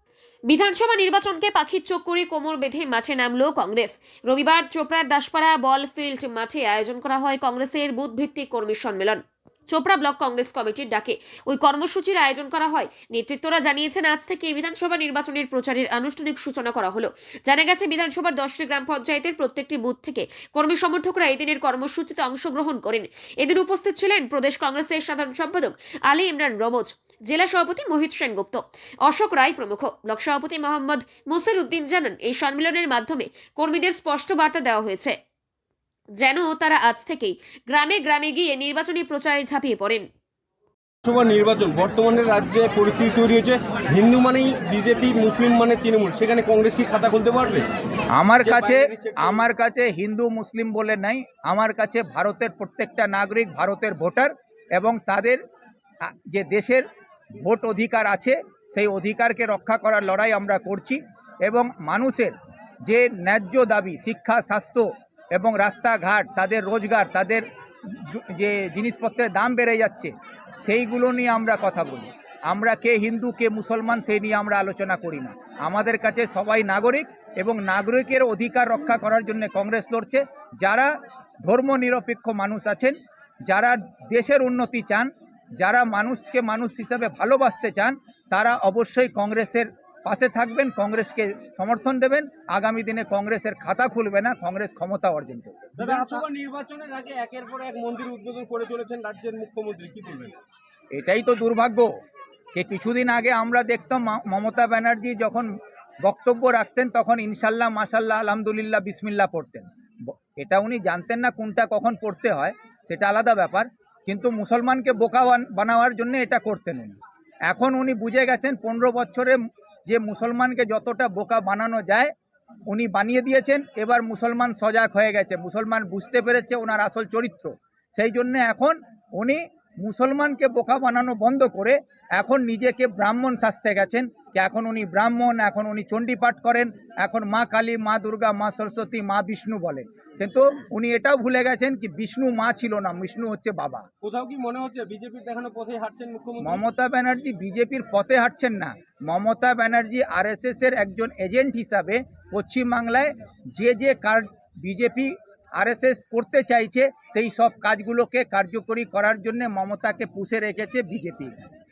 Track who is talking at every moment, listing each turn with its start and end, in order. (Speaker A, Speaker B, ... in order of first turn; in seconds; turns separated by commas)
Speaker A: 0.5-35.1, Speaker A: 36.2-40.1, Speaker B: 41.0-47.7, Speaker C: 48.1-55.4, Speaker B: 48.4-49.5, Speaker C: 56.0-56.9, Speaker C: 57.4-70.1, Speaker C: 70.6-80.9, Speaker C: 81.4-96.2, Speaker B: 95.8-100.4, Speaker C: 100.9-101.9, Speaker C: 102.5-105.5, Speaker C: 106.0-122.1, Speaker C: 122.7-143.9, Speaker B: 144.0-146.6, Speaker C: 146.4-161.5